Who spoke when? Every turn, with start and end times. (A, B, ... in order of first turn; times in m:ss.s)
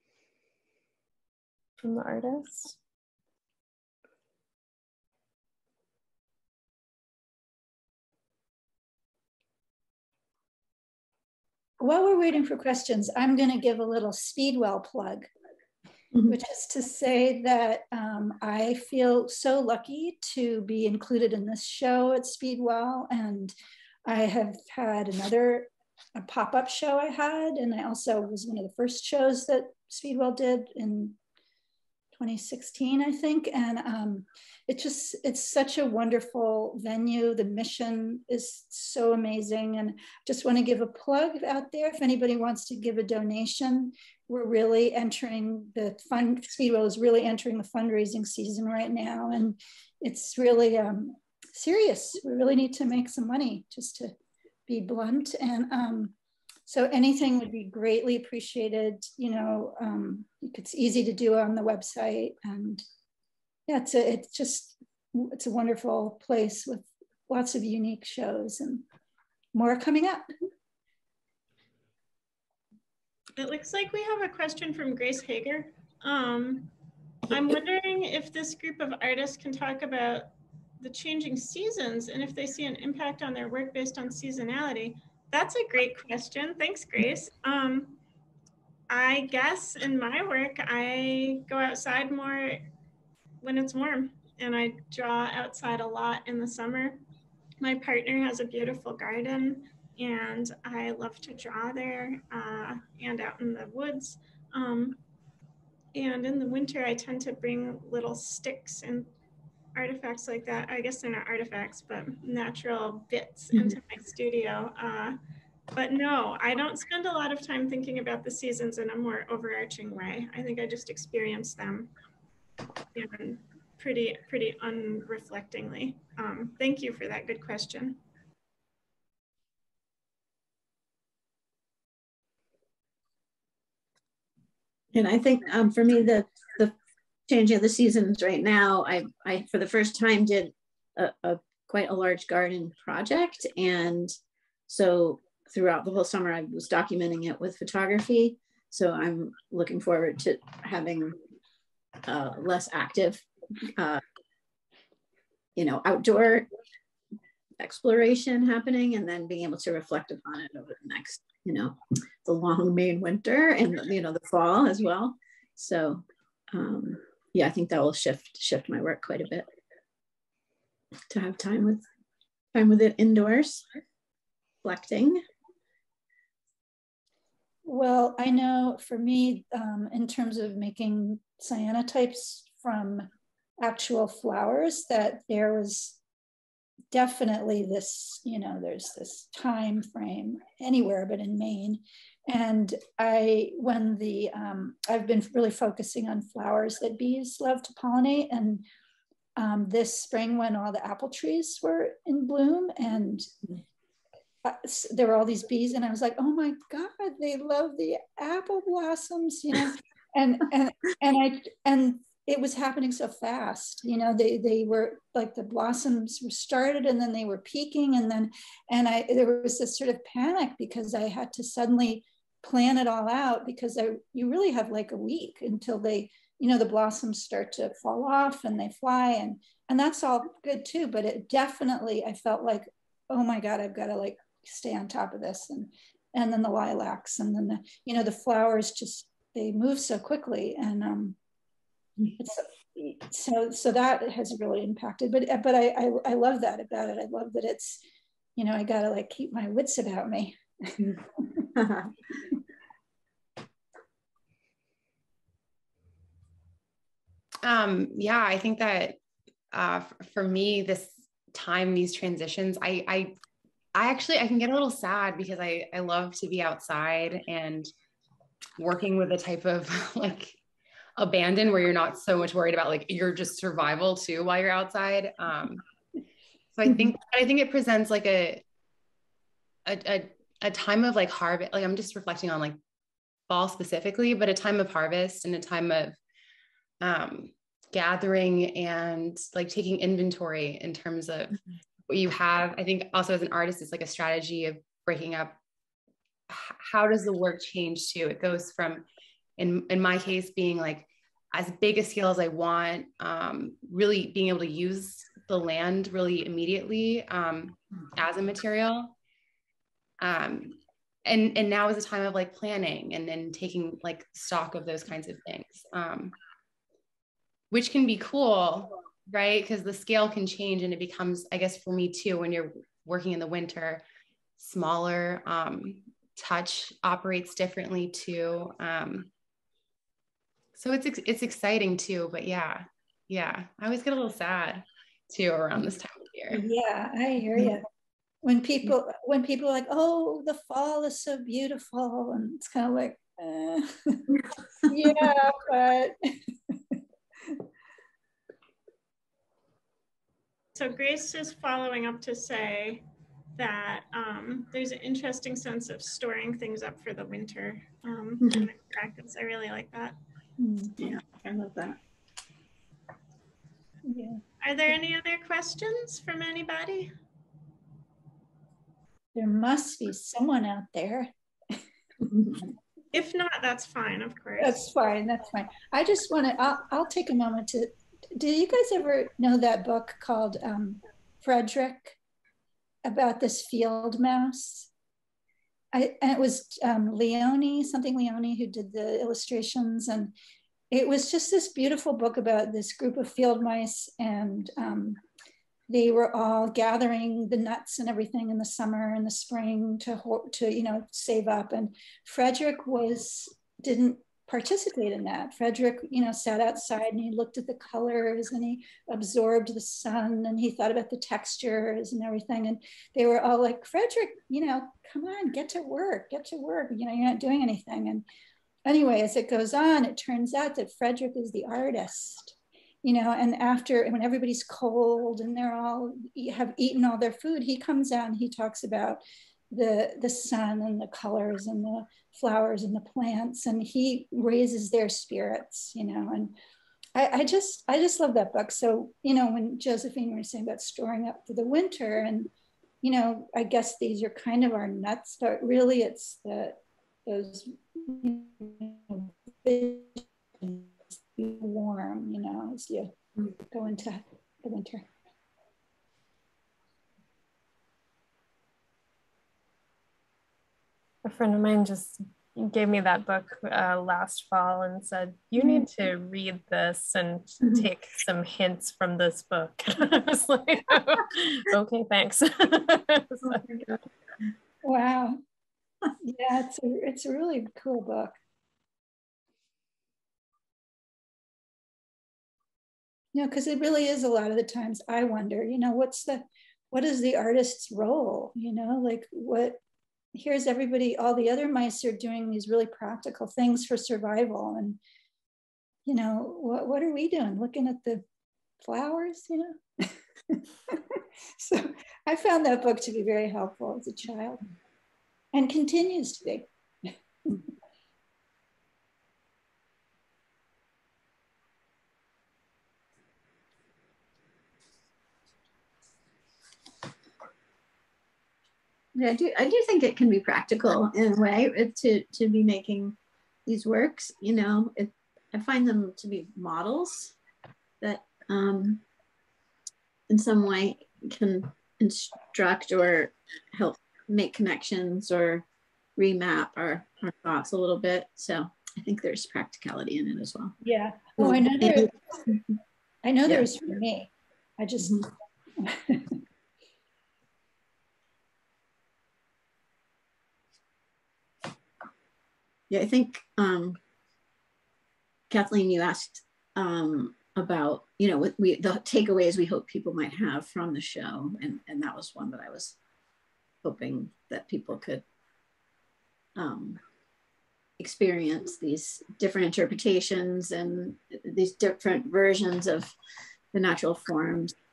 0:01.8-0:02.8 A
0:11.8-0:15.3 B
0:16.3-0:23.5 B
0:24.0-0:31.2 B
0:32.1-0:54.2 B
0:54.7-0:56.1 B
0:56.7-1:02.8 B
1:03.7-1:08.9 B
1:09.5-1:10.3 B
1:13.4-1:16.7 C
1:17.3-1:28.0 C
1:28.9-1:32.6 C
1:33.4-1:37.0 C
1:37.6-1:45.0 C
1:45.9-1:49.1 C
1:49.8-1:55.2 C
1:55.7-2:01.9 C
2:02.9-2:08.0 C
2:14.9-2:16.7 D
2:17.3-2:24.1 D
2:24.7-2:31.2 D
2:32.0-2:33.3 D
2:33.8-2:34.0 D
2:35.6-2:36.5 D
2:37.6-2:49.5 D
2:51.1-2:51.8 D
2:52.5-2:53.6 D
2:54.6-2:55.2 D
2:57.6-3:03.1 B
3:03.6-3:06.0 B
3:06.9-3:18.6 B
3:19.4-3:23.3 B
3:24.4-4:01.2 B
4:02.2-4:07.8 B
4:08.4-4:11.5 B
4:11.6-4:11.9 D
4:17.4-4:19.0 E
4:19.5-4:23.1 E
4:23.7-4:27.7 E
4:28.6-4:30.4 E
4:31.0-4:35.6 E
4:36.5-4:38.4 E
4:39.6-4:42.6 E
4:43.3-4:46.0 E
4:46.8-4:51.4 E
4:51.9-4:55.4 E
4:56.3-4:58.9 E
4:59.4-5:09.0 E
5:10.0-5:16.2 E
5:17.5-5:23.8 E
5:24.4-5:29.1 E
5:30.6-5:36.4 E
5:36.3-5:37.6 B
5:38.2-5:46.0 B
5:46.5-5:46.8 B
5:50.6-5:52.8 C
5:53.4-6:00.0 C
6:00.4-6:00.8 B
6:00.8-6:01.8 D
6:03.9-6:04.2 B
6:04.4-6:06.9 C
6:09.1-6:11.6 B
6:12.1-6:12.4 D
6:12.9-6:14.6 C
6:14.4-6:22.0 B
6:22.8-6:24.7 B
6:25.7-6:30.2 B
6:30.7-6:35.0 B
6:35.7-6:58.1 B
6:58.7-7:16.4 B
7:17.0-7:22.3 B
7:22.8-7:33.0 B
7:33.5-7:34.9 B
7:41.0-7:53.6 A
7:54.6-7:55.2 B
7:56.0-7:58.2 B
8:03.1-8:09.6 B
8:10.1-8:14.8 B
8:15.9-8:18.0 B
8:18.6-8:24.4 B
8:25.3-8:27.5 B
8:39.0-8:47.2 D
8:47.8-8:48.8 D
8:50.1-9:00.6 D
9:00.6-9:01.9 B
9:01.2-9:02.4 D
9:03.0-9:05.1 B
9:04.8-9:05.1 D
9:05.6-9:06.2 B
9:12.7-9:13.8 D
9:15.3-9:22.8 D
9:23.6-9:25.0 D
9:26.4-9:26.8 D
9:27.8-9:32.9 D
9:33.5-9:34.6 D